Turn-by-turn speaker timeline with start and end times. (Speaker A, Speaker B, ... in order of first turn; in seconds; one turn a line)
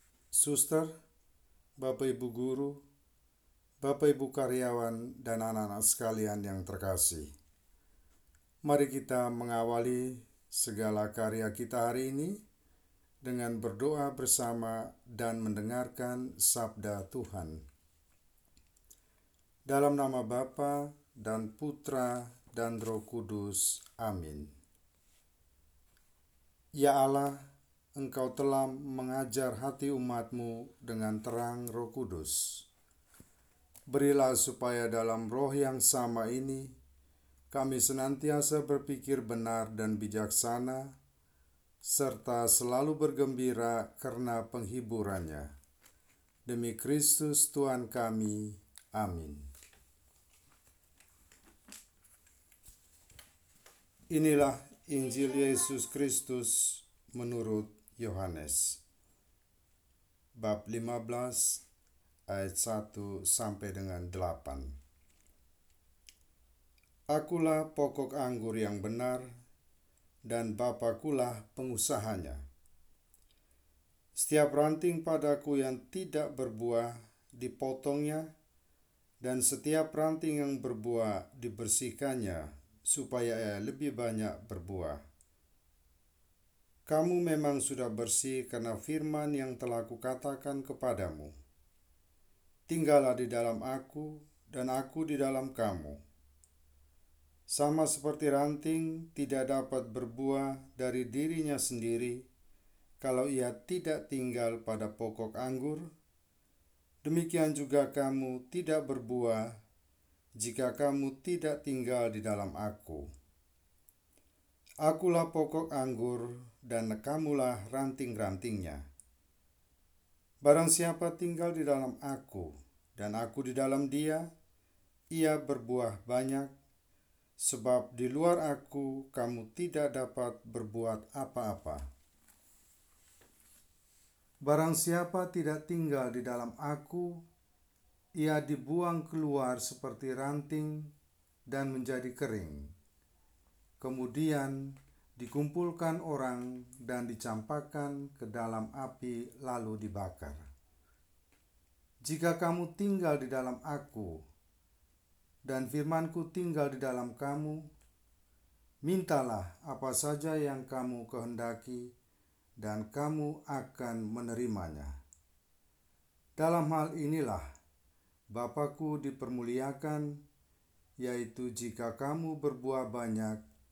Speaker A: 0.3-0.9
Speaker A: 1.8-2.8
Speaker A: 3.8-7.3
Speaker A: 8.7-12.4
Speaker A: 13.2-17.6
Speaker A: 19.7-24.5
Speaker A: 26.8-27.4
Speaker A: 28.0-32.6
Speaker A: 33.9-36.7
Speaker A: 37.5-40.9
Speaker A: 41.8-45.5
Speaker A: 46.5-49.5
Speaker A: 54.1-58.8
Speaker A: 60.4-61.6
Speaker A: 62.3-64.7
Speaker A: 67.1-69.3
Speaker A: 70.3-72.4
Speaker A: 74.2-78.3
Speaker A: 79.2-85.0
Speaker A: 86.9-91.3
Speaker A: 92.7-96.0
Speaker A: 97.5-102.2
Speaker A: 103.0-105.9
Speaker A: 107.0-109.5
Speaker A: 110.4-113.1
Speaker A: 114.8-118.8
Speaker A: 120.4-124.3
Speaker A: 125.1-126.5
Speaker A: 127.4-131.8
Speaker A: 134.4-137.2
Speaker A: 138.2-140.9
Speaker A: 141.5-142.7
Speaker A: 143.8-150.4
Speaker A: 152.0-154.2
Speaker A: 155.5-157.7
Speaker A: 158.8-161.9
Speaker A: 162.6-164.9
Speaker A: 166.4-167.5
Speaker A: 168.3-170.2
Speaker A: 171.0-173.4